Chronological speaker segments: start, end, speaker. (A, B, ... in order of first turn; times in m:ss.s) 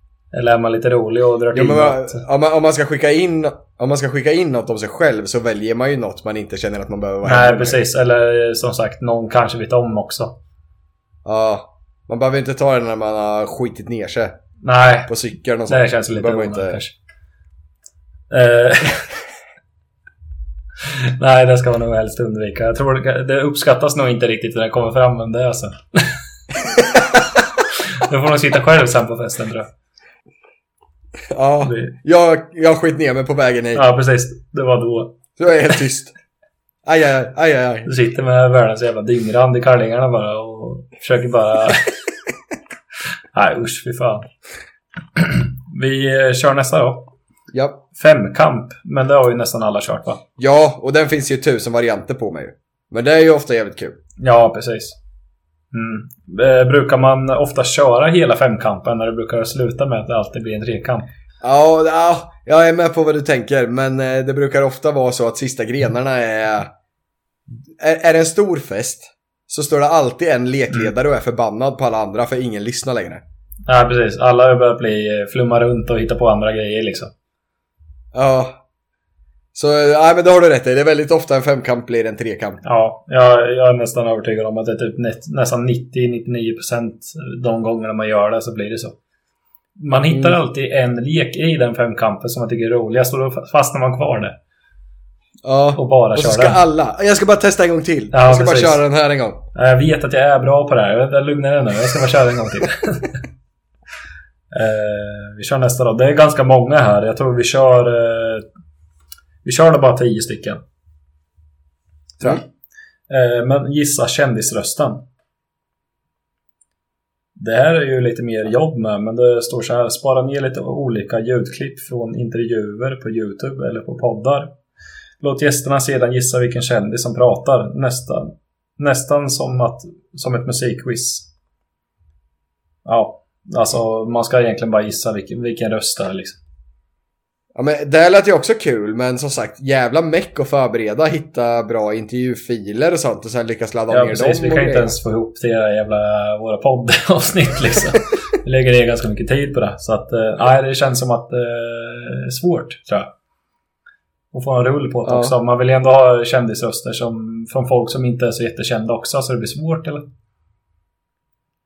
0:00.3-0:02.2 A
0:01.5-0:07.8 B
0:07.2-0:10.4 A
0:11.2-0:14.4 B
0:14.6-0:16.9 A
0:15.1-0:16.8 B
0:18.3-0:19.1 A
0:20.8-0:26.2 A
0:28.0-0:29.7 A
0:31.3-0:33.8 B
0:31.6-0:31.9 A
0:33.7-0:35.2 A
0:35.4-0:36.1 B
0:36.8-0:37.9 B
0:37.8-0:41.9 A
0:43.3-0:44.2 A
0:45.2-0:47.1 A
0:47.5-0:47.8 B
0:47.9-0:50.2 A
0:50.4-0:54.0 B
0:54.2-0:55.0 A
0:55.7-1:01.1 A
1:01.4-1:06.7 B
1:07.8-1:13.2 B
1:13.6-1:17.1 A
1:18.1-1:18.6 B
1:19.5-1:22.6 B
1:22.6-1:29.0 A
1:29.8-1:34.4 A
1:30.1-1:30.4 B
1:35.4-1:39.4 B
1:35.7-1:36.6 A
1:38.1-1:38.8 A
1:39.5-1:43.2 A
1:44.5-1:48.4 A
1:49.4-1:50.6 A
1:52.2-1:52.4 A
1:53.1-1:55.0 A
1:57.4-2:04.5 A
2:05.2-2:11.3 A
2:12.8-2:16.4 A
2:17.5-2:25.0 B
2:23.9-2:33.1 A
2:34.3-2:40.0 A
2:35.0-2:35.3 B